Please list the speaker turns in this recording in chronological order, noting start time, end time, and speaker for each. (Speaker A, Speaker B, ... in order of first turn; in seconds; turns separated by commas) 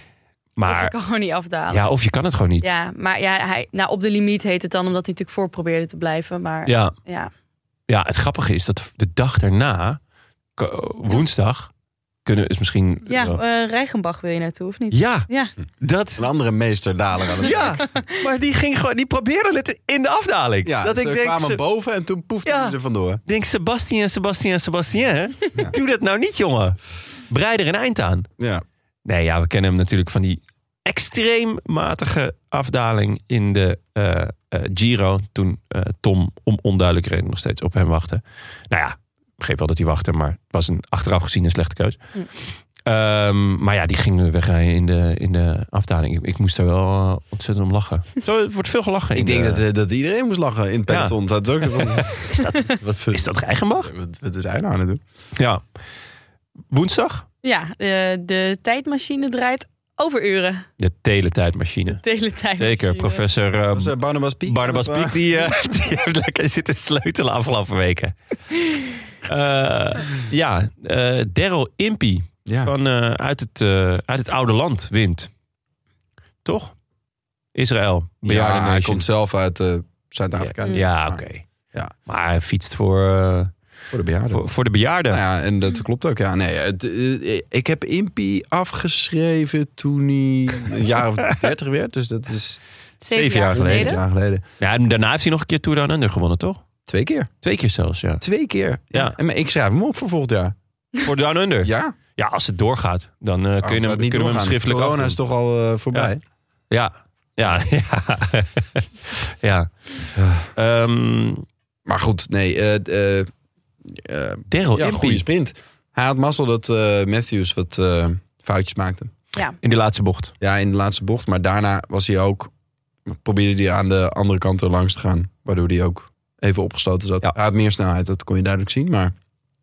Speaker A: 0.6-0.9, Speaker B: 0.6-1.9, Speaker A: 1.7-2.7, Speaker B: 2.6-7.3, Speaker A: 6.7-6.9, Speaker A: 7.9-10.0, Speaker A: 10.6-11.7, Speaker A: 12.3-13.4, Speaker B: 13.1-15.5, Speaker A: 14.9-15.3, Speaker A: 15.8-16.3, Speaker C: 16.2-17.8, Speaker A: 17.4-21.6, Speaker C: 20.6-23.2, Speaker A: 22.5-22.8, Speaker A: 23.3-26.8, Speaker A: 27.3-28.3, Speaker C: 28.4-28.6, Speaker A: 29.1-49.6, Speaker C: 49.1-53.3, Speaker A: 50.9-53.9, Speaker C: 53.8-55.0, Speaker A: 56.7-57.3, Speaker B: 57.4-60.7, Speaker A: 60.8-62.0, Speaker B: 61.9-63.2, Speaker A: 62.6-64.0, Speaker C: 63.7-65.2, Speaker A: 64.5-68.2, Speaker A: 69.3-75.3, Speaker C: 72.5-72.7, Speaker A: 76.5-76.7, Speaker A: 77.5-79.0, Speaker C: 78.2-81.9, Speaker A: 80.4-81.4, Speaker A: 82.1-83.5, Speaker C: 83.9-84.4, Speaker A: 84.3-85.2, Speaker C: 85.1-92.6, Speaker B: 93.0-94.0, Speaker A: 93.1-94.0, Speaker C: 93.5-94.4, Speaker A: 94.6-96.6, Speaker C: 96.9-97.3, Speaker A: 97.4-98.2, Speaker C: 98.2-100.5, Speaker A: 101.0-105.2, Speaker C: 101.6-102.0, Speaker C: 103.6-106.2, Speaker A: 106.7-111.4, Speaker C: 110.2-110.5, Speaker C: 111.9-113.3, Speaker C: 113.8-119.1, Speaker A: 114.5-115.2, Speaker A: 119.6-120.3, Speaker C: 120.4-122.5, Speaker C: 123.1-129.1